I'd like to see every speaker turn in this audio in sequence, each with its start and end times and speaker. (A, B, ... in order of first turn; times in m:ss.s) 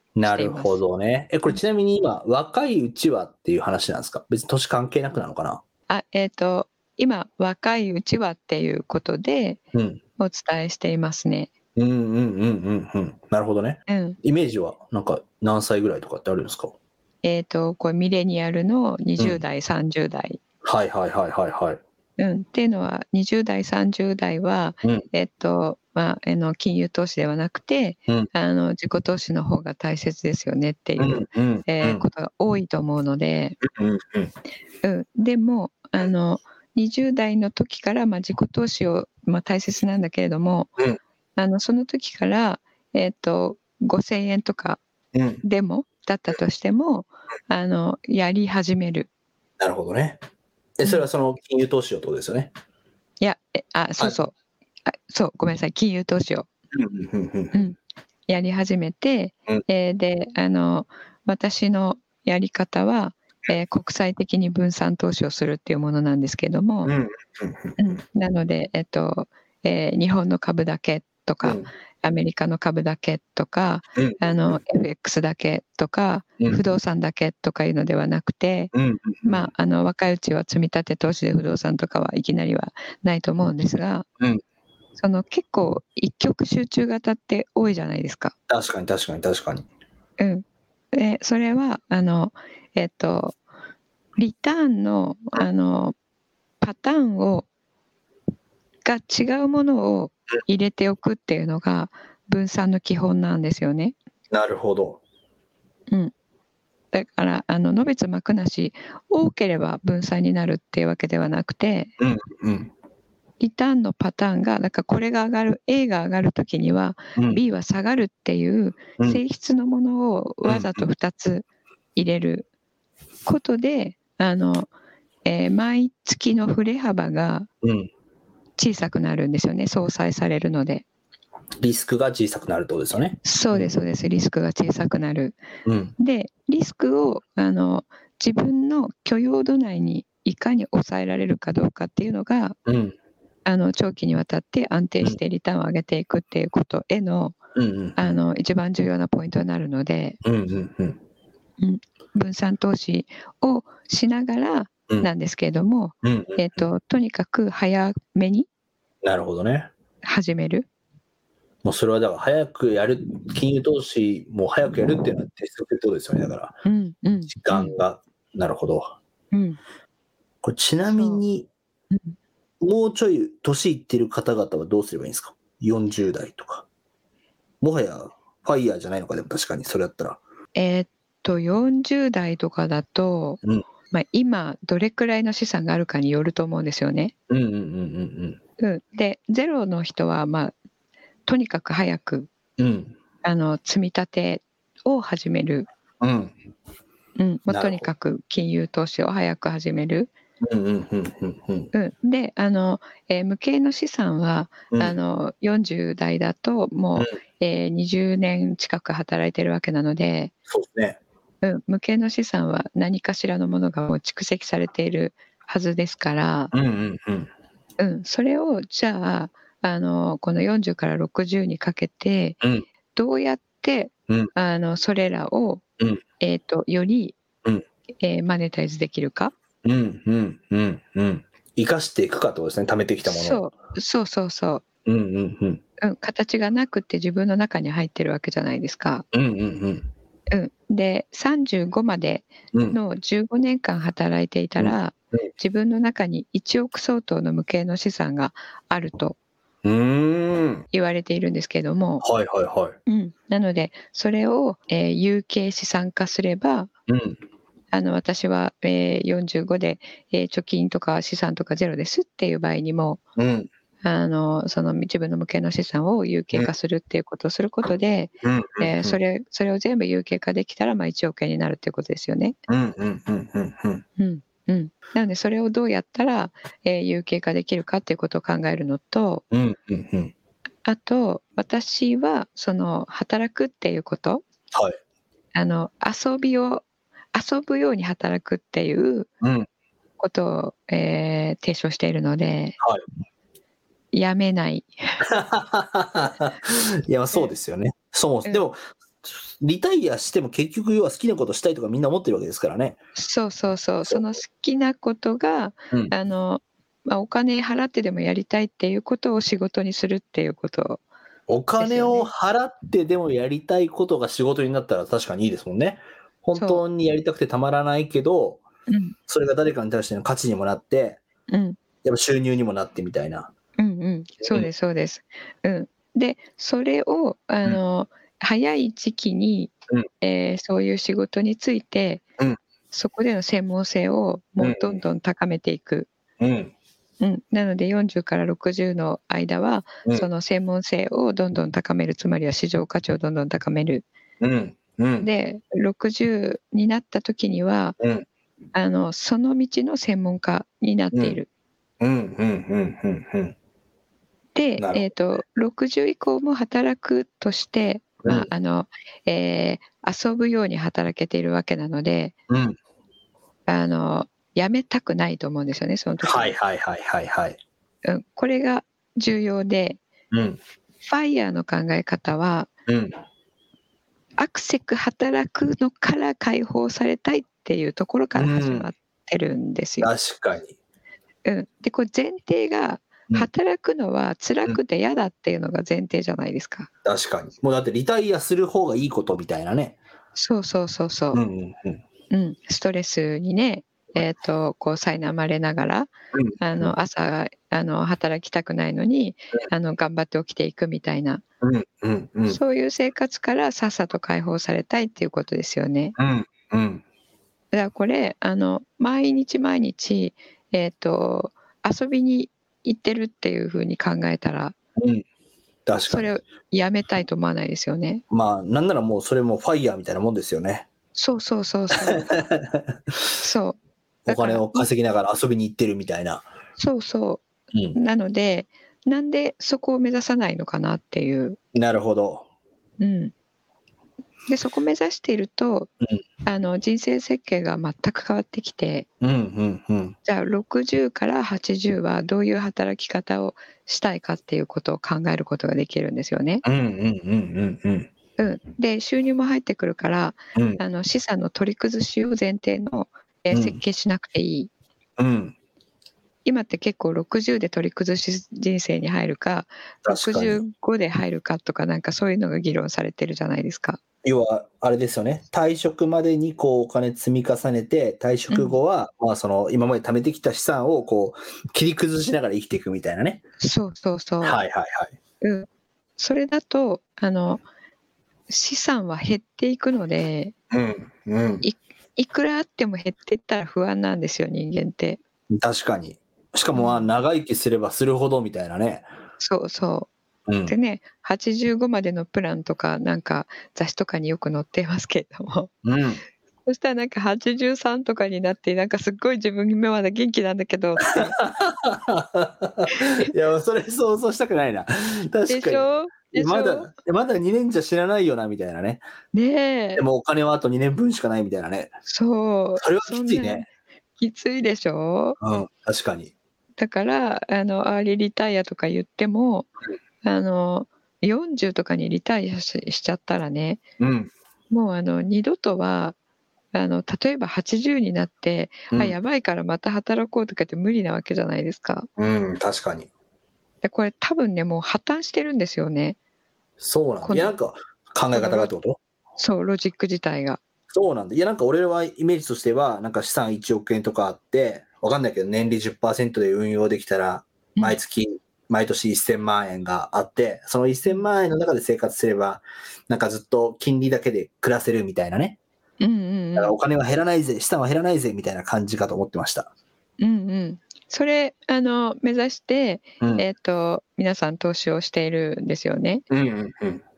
0:00.2-0:05.6 A
0:00.2-0:00.8 B
0:05.9-0:09.6 B
0:09.7-0:10.0 A
0:10.2-0:11.5 B
0:11.8-0:16.8 A
0:13.9-0:14.2 B
0:17.2-0:20.4 B
0:20.6-0:21.8 A
0:22.2-0:33.6 B
0:31.0-0:32.0 A
0:33.6-0:34.3 A
0:34.8-0:40.7 B
0:41.4-0:44.8 B
0:45.1-0:45.4 A
0:45.4-0:49.1 B
0:49.6-0:50.2 A
0:50.8-0:52.5 A
0:53.2-0:54.4 B
0:54.9-0:56.5 B
0:56.7-0:57.6 A
0:57.5-1:06.9 B
1:06.8-1:08.0 A
1:07.8-1:18.7 B
1:11.4-1:11.7 A
1:14.0-1:14.6 A
1:18.7-1:19.5 A
1:19.2-1:24.1 B
1:25.0-1:28.3 B
1:28.5-1:29.7 A
1:30.2-1:33.4 B
1:34.2-1:36.0 B
1:36.6-1:37.5 B
1:38.8-1:44.0 B
1:44.3-1:45.0 A
1:46.9-1:51.9 B
1:52.0-1:52.7 A
1:53.4-2:02.5 B
1:57.2-1:57.4 A
2:00.5-2:00.8 A
2:03.2-2:04.7 B
2:05.2-2:07.5 B
2:07.6-2:07.9 A
2:08.6-2:10.8 B
2:11.6-2:13.8 A
2:13.2-2:15.4 B
2:15.6-2:15.9 A
2:16.0-2:22.6 B
2:22.7-2:23.0 A
2:23.4-2:27.4 B
2:27.6-2:28.2 A
2:28.0-2:30.2 B
2:30.2-2:31.0 A
2:31.6-2:38.5 B
2:36.0-2:36.7 A
2:39.0-2:39.7 A
2:40.0-2:40.7 B
2:41.6-2:46.6 A
2:46.6-2:47.8 B
2:47.3-2:49.0 A
2:49.3-2:49.6 B
2:50.4-2:51.5 A
2:50.9-2:51.2 B
2:52.6-2:56.7 A
2:57.6-3:00.2 A
3:00.6-3:07.1 B
3:07.3-3:08.4 A
3:08.6-3:10.6 B
3:11.3-3:12.3 B
3:12.6-3:13.0 A
3:13.2-3:15.7 B
3:16.0-3:16.4 A
3:17.2-3:20.1 B
3:17.5-3:17.9 A
3:20.4-3:21.7 A
3:21.7-3:30.3 B
3:24.7-3:25.0 A
3:30.5-3:31.0 A
3:31.4-3:36.5 B
3:36.5-3:37.3 A
3:37.8-3:42.4 B
3:42.9-3:45.6 B
3:46.2-3:47.2 B
3:48.0-3:49.3 B
3:49.6-3:53.4 A
3:53.1-3:54.6 B
3:54.9-3:55.6 A
3:55.8-3:59.0 B
3:59.1-3:59.9 A
4:00.3-4:09.2 B
4:04.6-4:05.3 A
4:09.6-4:10.7 A
4:10.7-4:12.0 B
4:12.0-4:12.8 A
4:12.9-4:16.7 B
4:16.9-4:17.2 A
4:17.7-4:23.0 B
4:23.2-4:23.5 A
4:23.8-4:32.4 B
4:28.2-4:29.0 A
4:32.5-4:33.8 A
4:34.0-4:39.2 B
4:39.3-4:40.1 A
4:40.6-4:44.2 B
4:45.4-4:49.1 B
4:49.2-4:49.5 A
4:50.0-4:52.6 B
4:53.9-4:55.0 B
4:55.1-5:02.8 A
5:03.0-5:10.8 B
5:11.3-5:18.4 A
5:11.6-5:12.1 B
5:16.4-5:16.6 B
5:18.7-5:19.0 B
5:19.1-5:21.0 A
5:21.3-5:21.6 B
5:21.8-5:23.3 A
5:23.6-5:32.0 B
5:24.2-5:24.5 A
5:32.7-5:35.9 B
5:34.4-5:34.8 A
5:36.2-5:36.5 A
5:37.0-5:43.9 B
5:44.2-5:45.1 A
5:45.0-5:47.8 B
5:48.5-5:51.3 B
5:51.8-5:53.4 A
5:54.4-6:02.2 B
5:54.6-5:54.9 A
5:58.0-5:58.3 A
6:02.3-6:02.6 A
6:03.5-6:06.4 B
6:06.0-6:07.4 A
6:07.8-6:09.8 B
6:10.1-6:10.4 A
6:10.8-6:12.5 B
6:12.7-6:13.0 A
6:14.2-6:19.9 B
6:18.2-6:18.7 A
6:19.8-6:20.6 A
6:21.2-6:26.7 B
6:26.8-6:29.8 A
6:30.2-6:31.2 B
6:31.1-6:31.8 A
6:32.1-6:41.2 B
6:36.1-6:36.7 A
6:41.4-6:42.4 A
6:42.3-6:46.0 B
6:46.0-6:46.8 A
6:47.5-6:54.6 B
6:54.8-6:55.0 A
6:55.7-6:56.1 A
6:55.9-6:58.0 B
6:58.1-7:00.7 A
7:01.0-7:02.1 B
7:01.8-7:02.9 A
7:03.2-7:04.7 B
7:04.1-7:06.3 A
7:06.6-7:11.4 B
7:11.5-7:12.3 A
7:12.8-7:13.1 B
7:14.3-7:15.7 B
7:16.2-7:18.9 B
7:19.0-7:20.0 A
7:20.0-7:26.4 B
7:26.4-7:27.9 A
7:28.2-7:34.5 B
7:30.4-7:30.6 A
7:33.3-7:33.6 A
7:35.0-7:35.4 A
7:36.2-7:43.8 B
7:39.8-7:40.4 A
7:44.0-7:53.2 A
7:48.3-7:48.6 B
7:53.4-7:54.4 B
7:54.2-7:54.9 A
7:55.2-7:57.4 B
7:58.3-8:00.3 B
8:00.5-8:01.4 A
8:01.4-8:05.0 B
8:05.3-8:08.9 A
8:06.5-8:06.9 B
8:09.2-8:09.9 B
8:10.3-8:10.5 A
8:10.5-8:15.5 B
8:15.6-8:16.0 A
8:16.5-8:21.2 B
8:20.9-8:28.8 A
8:25.3-8:26.7 B
8:29.1-8:29.8 B
8:29.8-8:31.8 A
8:31.9-8:35.2 B
8:32.6-8:33.5 A
8:35.2-8:36.1 A
8:36.6-8:39.5 B
8:40.0-8:43.6 B
8:43.8-8:44.1 A
8:44.5-8:46.0 B
8:46.5-8:51.9 B
8:52.0-8:52.9 A
8:53.6-8:56.0 B
8:56.6-8:58.8 A
8:57.0-8:57.4 B
8:58.1-8:58.5 B
8:59.2-9:00.4 B
9:00.7-9:15.4 A
9:15.8-9:16.6 B
9:16.4-9:19.5 A
9:20.0-9:26.0 B
9:26.1-9:26.8 A